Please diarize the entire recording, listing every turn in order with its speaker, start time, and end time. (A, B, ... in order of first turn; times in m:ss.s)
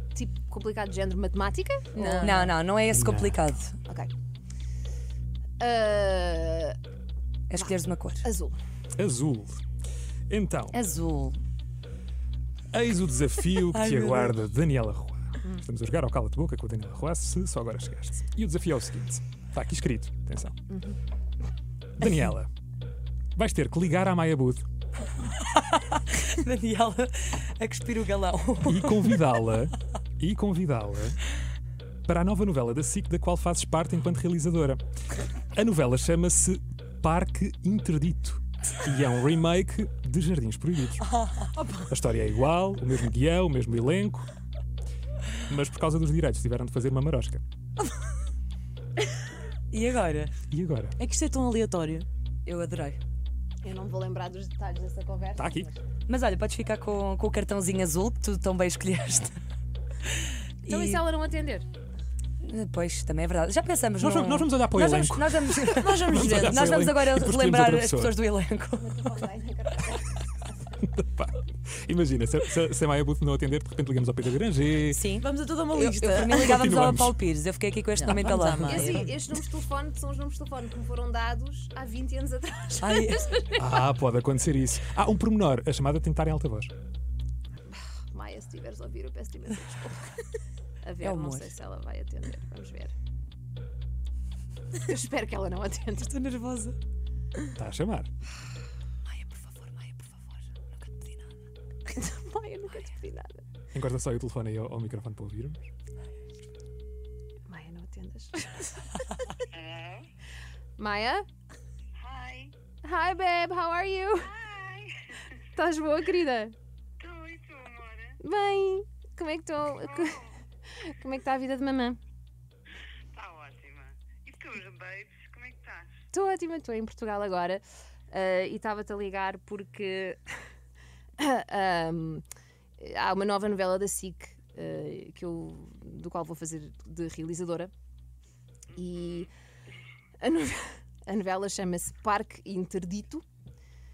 0:00.1-0:02.3 A
0:02.0-0:02.5 B
0:02.2-0:03.8 C
0:02.9-0:03.4 D
0:03.9-0:04.1 A
0:05.6-0:06.8 A
0:07.5-0:08.3 C
0:07.6-0:08.6 A
0:09.0-0:09.6 D
0:10.3-0:10.8 D
0:10.7-0:11.4 C
0:12.7-0:20.6 D
0:13.7-0:14.4 C
0:22.0-0:22.5 D
0:23.4-0:24.6 D
0:25.7-0:29.2 C
0:28.6-0:31.2 D
0:32.1-0:34.8 D
0:35.5-0:41.1 D
0:41.4-0:41.9 B
0:41.9-0:44.3 D
0:45.5-0:47.4 D
0:49.7-0:50.3 C
0:50.5-0:51.0 D
0:51.0-0:52.1 B
0:52.4-0:53.0 C
0:53.6-0:55.8 A
0:55.4-0:55.7 D
0:56.1-0:59.4 C
1:00.6-1:01.0 C
1:00.7-1:01.7 A
1:02.4-1:09.0 C
1:04.0-1:08.2 D
1:05.8-1:06.7 B
1:08.8-1:10.4 A
1:10.8-1:15.0 D
1:14.9-1:19.0 C
1:15.2-1:16.5 B
1:16.3-1:17.2 D
1:18.0-1:19.2 B
1:18.7-1:23.6 A
1:22.8-1:23.3 C
1:23.6-1:26.7 D
1:27.7-1:30.2 A
1:30.8-1:32.9 A
1:31.0-1:31.5 C
1:34.8-1:36.1 A
1:36.0-1:36.8 C
1:37.6-1:38.1 D
1:39.0-1:41.4 C
1:41.9-1:43.4 A
1:43.7-1:45.7 D
1:47.5-1:49.4 A
1:49.5-1:50.1 E
1:50.8-1:51.3 A
1:52.0-1:52.5 E
1:52.8-1:54.3 A
1:54.3-1:55.3 E
1:55.6-1:56.6 A
1:57.0-1:58.2 E
1:58.2-2:02.0 A
1:59.8-2:00.4 E
2:03.1-2:05.9 E
2:06.1-2:10.2 A
2:11.2-2:12.2 A
2:12.8-2:17.7 A
2:18.8-2:19.3 A
2:20.2-2:23.2 A